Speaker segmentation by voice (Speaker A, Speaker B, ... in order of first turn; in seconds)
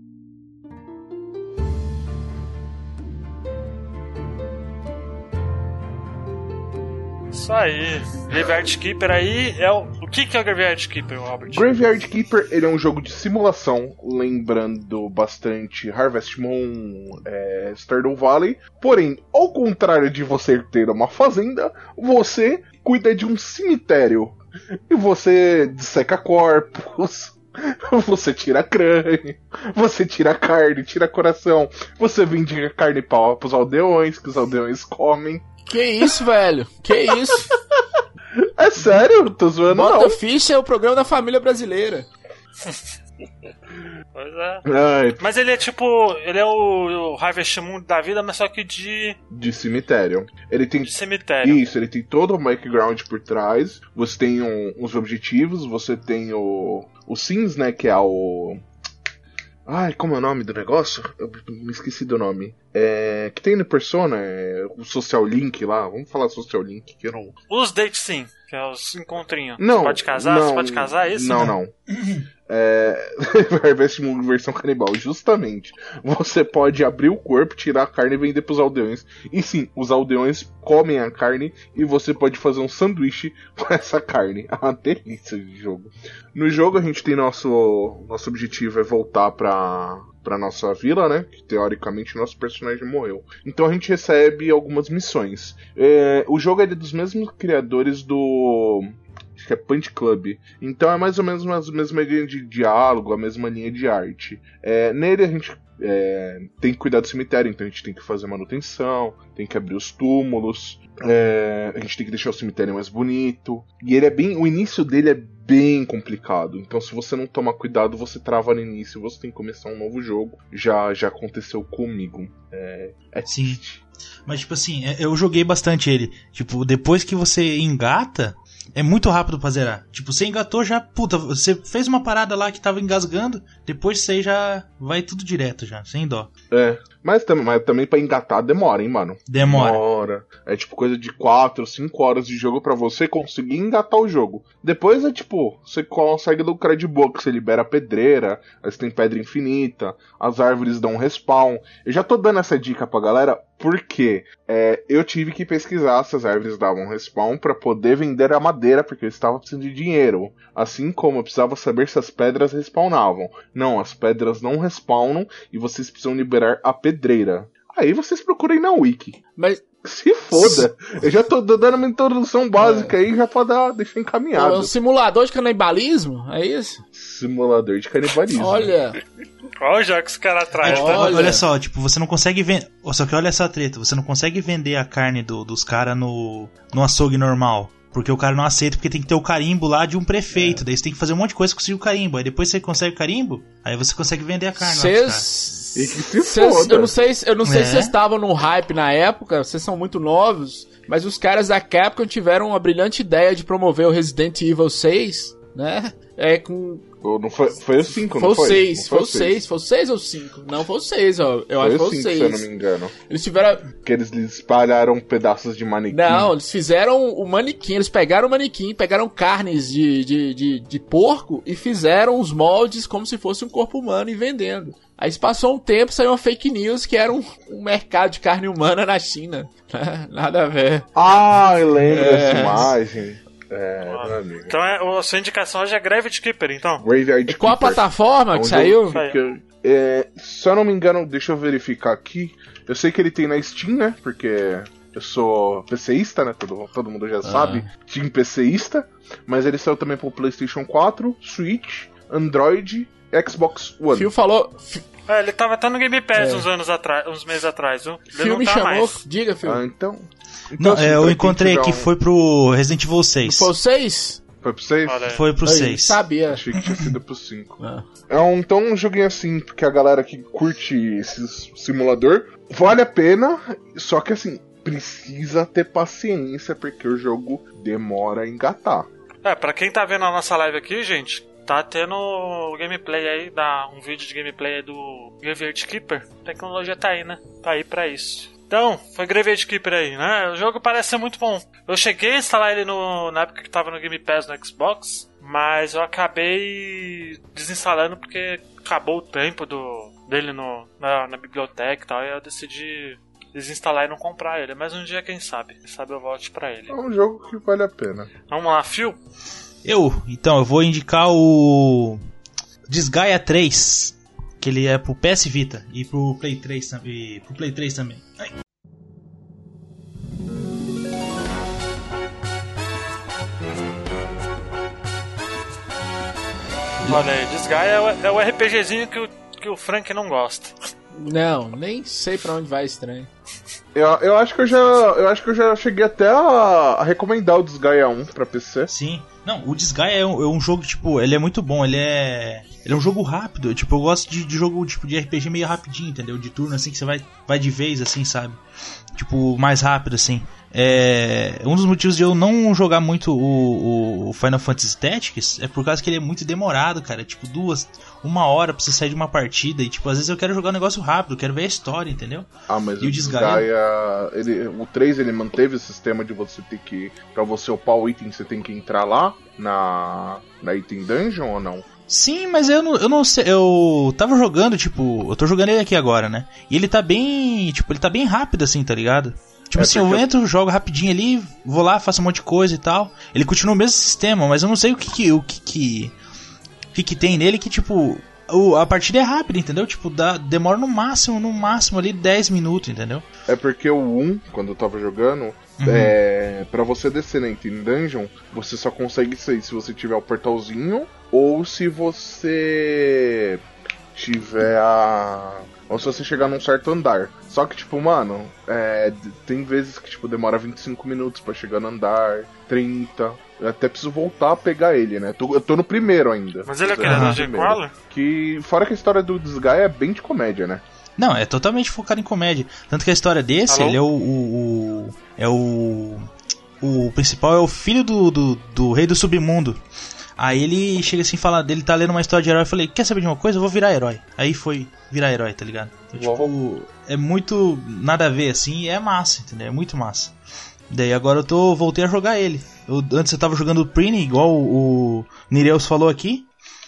Speaker A: 7.3-11.7, 44.1-44.6, 45.2-49.2, 50.8-51.7, 67.5-71.5, 179.6-181.3, 233.9-236.8, 238.9-239.2, 255.1-259.0, 264.9-265.2, 279.2-306.8, 308.3-309.0, 326.9-330.6, 416.5-417.7, 423.5-423.8
Speaker B: 11.5-35.5, 37.3-37.8, 38.4-40.2, 44.7-45.2, 49.3-58.6, 59.7-67.4, 69.6-71.7, 72.5-123.8, 136.5-169.2, 169.8-174.7, 176.9-178.8, 195.8-196.9, 207.0-209.4, 211.6-212.9, 213.8-216.3, 230.9-234.5, 236.8-254.1, 259.4-261.9, 264.4-265.2, 266.3-278.9, 306.7-308.1, 333.7-338.7, 362.5-371.7, 379.5-380.1, 393.3-403.4, 403.9-420.6, 435.9-436.3
Speaker C: 35.7-37.5, 39.7-42.1, 169.4-169.7, 170.3-170.7, 172.6-172.9, 174.3-176.8, 178.4-179.0, 180.6-181.5, 190.3-190.6, 194.6-206.8, 208.2-212.5, 213.1-213.7, 215.9-230.9, 231.9-232.7, 237.3-239.0, 247.2-247.7, 253.9-254.9, 256.1-256.5, 258.1-259.6, 263.2-264.2, 265.4-266.4, 267.6-267.9, 330.9-333.1
Speaker D: 71.3-72.3, 123.3-123.6, 124.3-136.3, 139.3-139.8, 180.6-195.3, 197.4-197.9, 260.6-263.5, 265.1-266.0, 266.6-266.9, 309.6-312.0, 312.7-318.3, 338.7-348.4, 349.0-363.5, 371.9-385.9, 386.7-393.0, 395.6-395.9, 416.9-417.2, 421.0-426.1, 426.6-429.6, 430.2-440.1, 440.7-446.3